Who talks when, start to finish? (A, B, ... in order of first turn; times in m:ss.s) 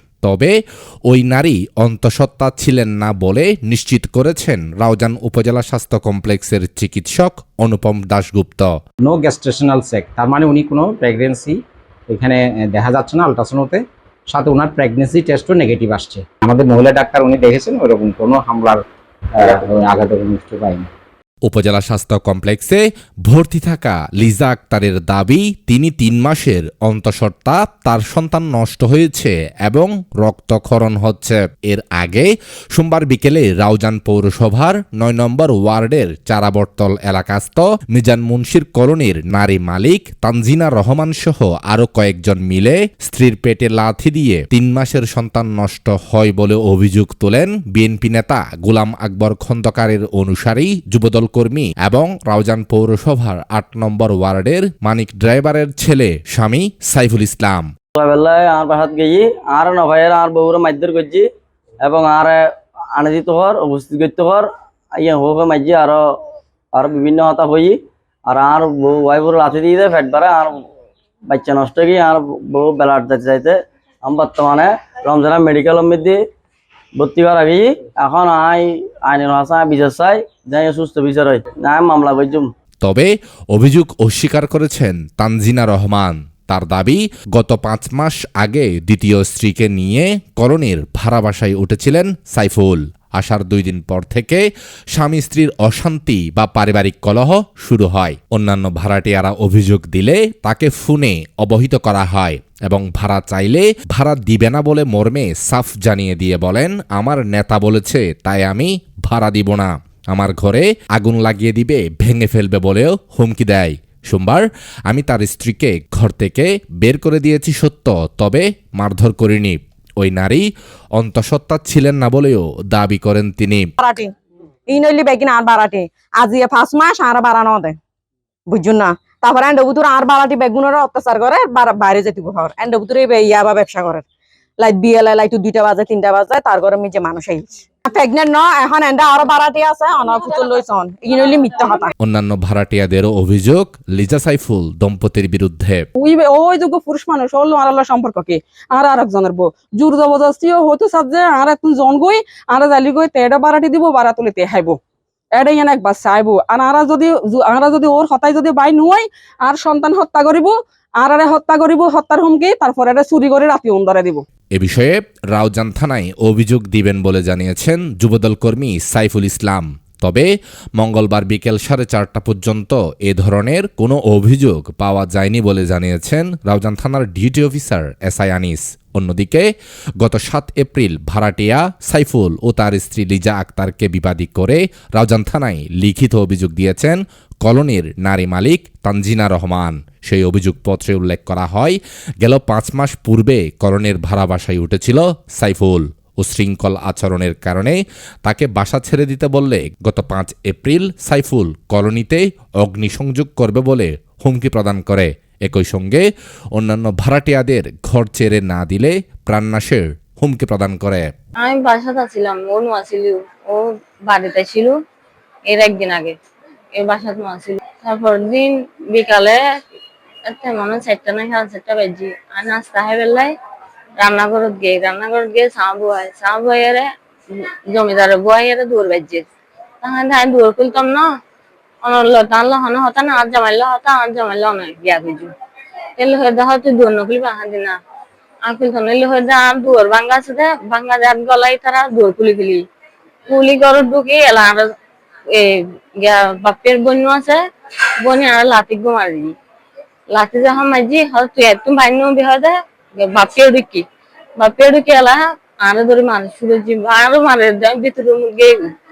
0:00.2-0:00.5 A
0:01.1-0:08.7 A
0:09.0-0:11.6 B
0:12.1-0:18.8 B
0:19.4-0:20.9 B
0:21.5-0:57.7 A
0:57.9-1:01.3 C
1:01.8-1:02.4 C
1:03.0-1:06.0 C
1:06.7-1:07.8 C
1:08.3-1:10.5 C
1:11.3-1:16.2 C
1:17.0-1:22.5 C
1:22.8-2:00.4 A
2:01.0-2:03.7 A
2:03.8-2:04.1 D
2:04.7-2:07.8 D
2:08.5-2:14.0 D
2:14.6-2:21.9 D
2:22.0-2:25.8 A
2:26.0-2:34.8 E
2:35.3-2:44.2 E
2:44.6-2:59.4 A
3:00.0-3:26.0 A
3:26.6-3:31.1 A
3:31.4-3:34.8 F
3:35.5-3:36.2 F
3:36.8-3:39.4 F
3:40.3-3:43.3 F
3:44.0-3:46.9 F
3:47.7-3:49.2 F
3:49.8-3:51.1 F
3:51.8-3:55.3 F
3:56.0-3:57.8 F
3:58.4-4:02.6 F
4:03.3-4:04.7 F
4:05.4-4:07.4 F
4:08.0-4:09.4 F
4:10.1-4:13.8 F
4:14.4-4:18.7 F